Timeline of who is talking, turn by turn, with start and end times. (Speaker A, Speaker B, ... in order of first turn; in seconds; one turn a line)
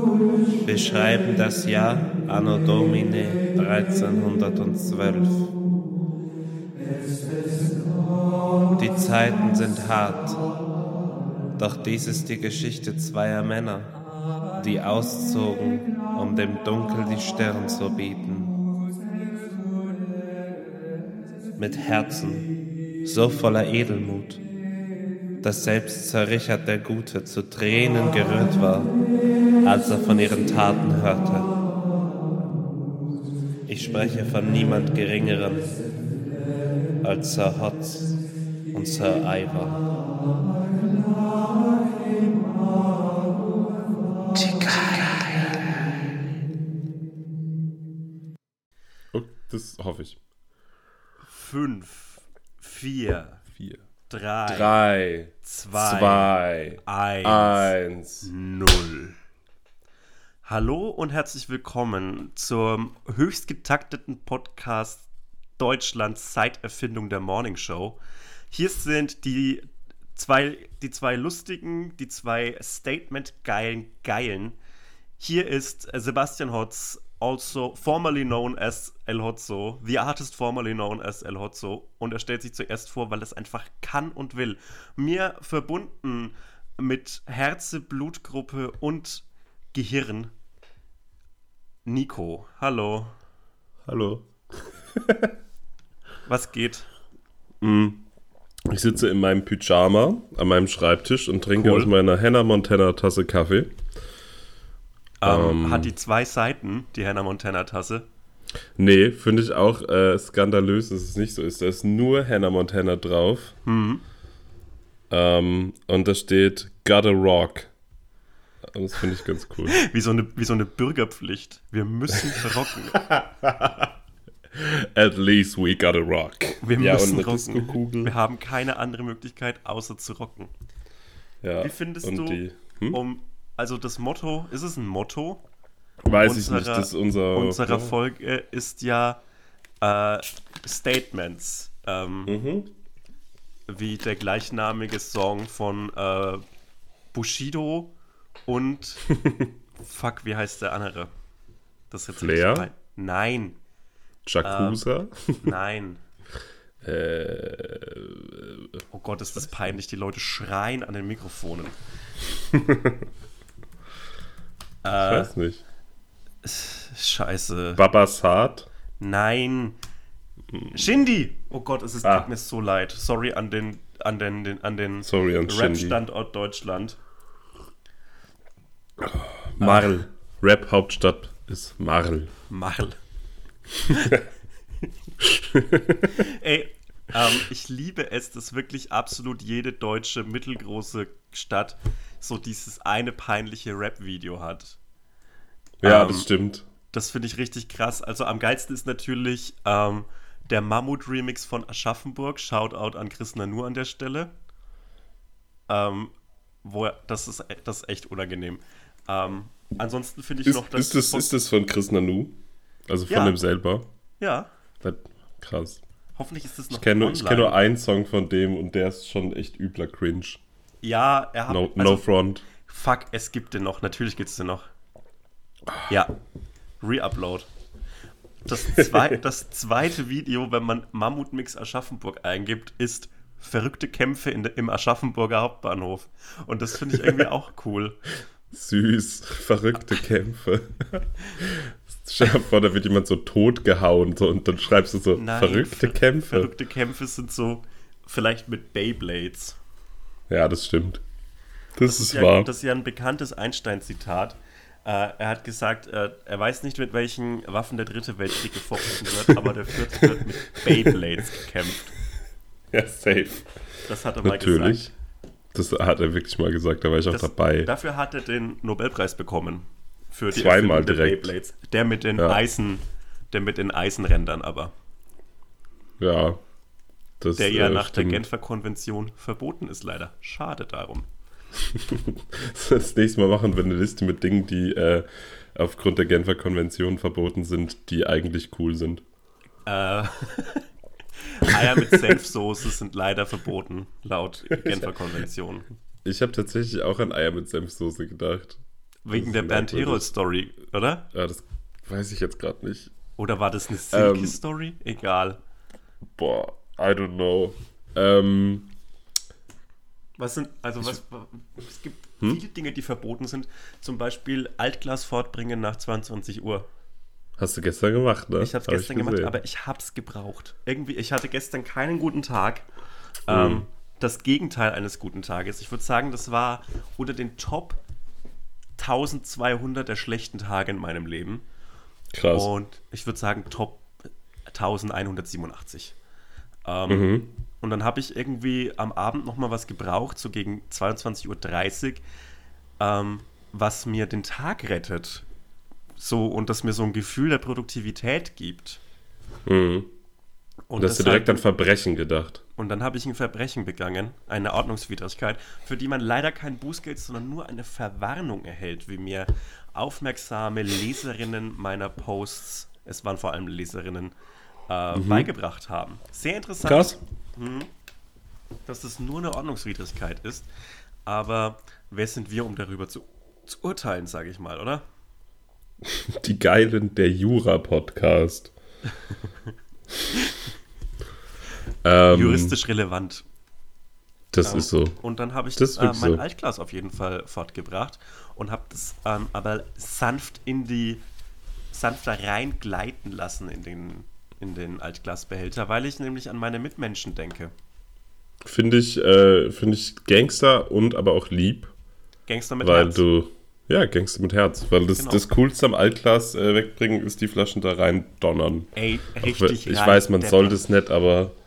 Speaker A: 0.6-5.5
Speaker A: 8.8-10.4
Speaker A: 11.6-13.9
Speaker A: 14.6-18.6
Speaker A: 21.6-22.5
Speaker A: 23.0-24.4
Speaker A: 25.4-28.9
Speaker A: 29.6-31.5
Speaker A: 33.7-35.7
Speaker A: 37.0-38.1
Speaker A: 38.7-39.8
Speaker A: 44.3-45.6
Speaker B: 49.1-50.2
Speaker C: 51.3-53.4
Speaker B: 53.6-53.8
Speaker C: 54.1-54.7
Speaker B: 54.5-58.3
Speaker C: 55.4-56.3
Speaker C: 56.8-59.2
Speaker C: 60.5-68.0
Speaker C: 68.5-74.6
Speaker C: 75.2-90.3
Speaker C: 91.9-93.1
Speaker B: 93.9-95.3
Speaker C: 96.3-96.9
Speaker B: 97.6-98.1
Speaker B: 98.7-103.7
Speaker C: 101.6-101.9
Speaker C: 105.2-108.1
Speaker B: 105.2-105.9
Speaker B: 108.8-113.5
Speaker C: 113.6-114.0
Speaker B: 115.1-117.7
Speaker B: 118.7-119.8
Speaker C: 119.7-123.0
Speaker B: 123.0-123.9
Speaker B: 124.5-128.1
Speaker C: 126.6-130.5
Speaker B: 131.4-133.0
Speaker C: 131.6-135.4
Speaker B: 136.0-137.9
Speaker C: 136.1-139.2
Speaker C: 139.8-142.4
Speaker B: 142.3-142.7
Speaker C: 143.7-146.4
Speaker C: 147.1-147.9
Speaker C: 148.4-149.1
Speaker B: 149.2-149.5
Speaker C: 149.8-151.1
Speaker C: 151.9-153.6
Speaker B: 152.2-152.7
Speaker B: 154.2-155.5
Speaker C: 154.4-154.8
Speaker C: 155.4-156.0
Speaker B: 156.8-158.8
Speaker C: 158.9-161.8
Speaker B: 159.4-159.8
Speaker B: 162.5-163.1
Speaker C: 164.8-165.3
Speaker B: 164.9-165.6
Speaker C: 166.4-167.8
Speaker B: 167.8-168.7
Speaker C: 169.0-169.8
Speaker C: 170.7-177.0
Speaker B: 172.0-172.3
Speaker B: 175.0-176.0
Speaker B: 179.0-182.3
Speaker C: 179.6-179.9
Speaker C: 182.5-182.9
Speaker B: 183.9-184.2
Speaker B: 185.2-186.2
Speaker C: 186.1-194.8
Speaker B: 195.8-196.7
Speaker C: 195.8-196.3
Speaker C: 196.9-204.3
Speaker C: 205.7-206.1
Speaker C: 206.6-211.3
Speaker B: 210.4-212.3
Speaker B: 212.9-213.9
Speaker C: 213.1-213.3
Speaker C: 214.2-214.5
Speaker B: 214.8-215.8
Speaker C: 216.2-217.6
Speaker B: 216.7-220.4
Speaker C: 220.8-224.7
Speaker B: 221.5-222.4
Speaker C: 225.9-226.1
Speaker C: 226.8-227.5
Speaker C: 228.4-238.0
Speaker B: 238.5-246.5
Speaker C: 245.1-249.6
Speaker B: 250.3-251.0
Speaker B: 251.8-252.5
Speaker C: 251.8-261.9
Speaker B: 259.3-260.2
Speaker B: 260.7-260.9
Speaker B: 262.7-263.5
Speaker C: 263.9-264.9
Speaker B: 264.2-264.9
Speaker B: 265.5-267.7
Speaker C: 267.1-274.7
Speaker B: 270.3-271.3
Speaker B: 276.0-276.4
Speaker B: 277.2-278.2
Speaker C: 277.4-281.1
Speaker B: 281.7-289.0
Speaker C: 289.6-290.6
Speaker C: 291.2-295.7
Speaker B: 294.6-294.9
Speaker B: 296.1-298.6
Speaker C: 299.1-301.1
Speaker B: 299.1-300.1
Speaker B: 301.1-302.9
Speaker C: 303.2-305.4
Speaker B: 303.9-304.4
Speaker B: 306.2-308.7
Speaker C: 310.2-316.7
Speaker B: 317.4-319.3
Speaker C: 318.4-322.7
Speaker C: 323.3-327.8
Speaker B: 323.3-323.6
Speaker C: 328.8-331.4
Speaker B: 332.1-332.5
Speaker C: 332.3-333.9
Speaker C: 334.5-335.9
Speaker C: 336.6-342.0
Speaker B: 336.9-337.3
Speaker C: 342.8-345.2
Speaker C: 346.0-348.8
Speaker B: 349.4-349.9
Speaker C: 350.7-351.4
Speaker B: 350.8-352.4
Speaker C: 352.6-364.1
Speaker C: 364.7-367.7
Speaker B: 364.9-365.3
Speaker B: 366.6-367.0
Speaker C: 368.7-370.5
Speaker C: 371.1-374.8
Speaker B: 375.8-378.5
Speaker B: 381.8-382.6
Speaker C: 382.1-383.2
Speaker B: 384.3-384.9
Speaker C: 384.4-391.0
Speaker B: 385.6-386.2
Speaker C: 391.7-397.5
Speaker B: 398.4-401.7
Speaker C: 402.3-403.0
Speaker B: 402.6-408.7
Speaker C: 404.9-405.2
Speaker C: 408.8-410.6
Speaker B: 409.2-411.3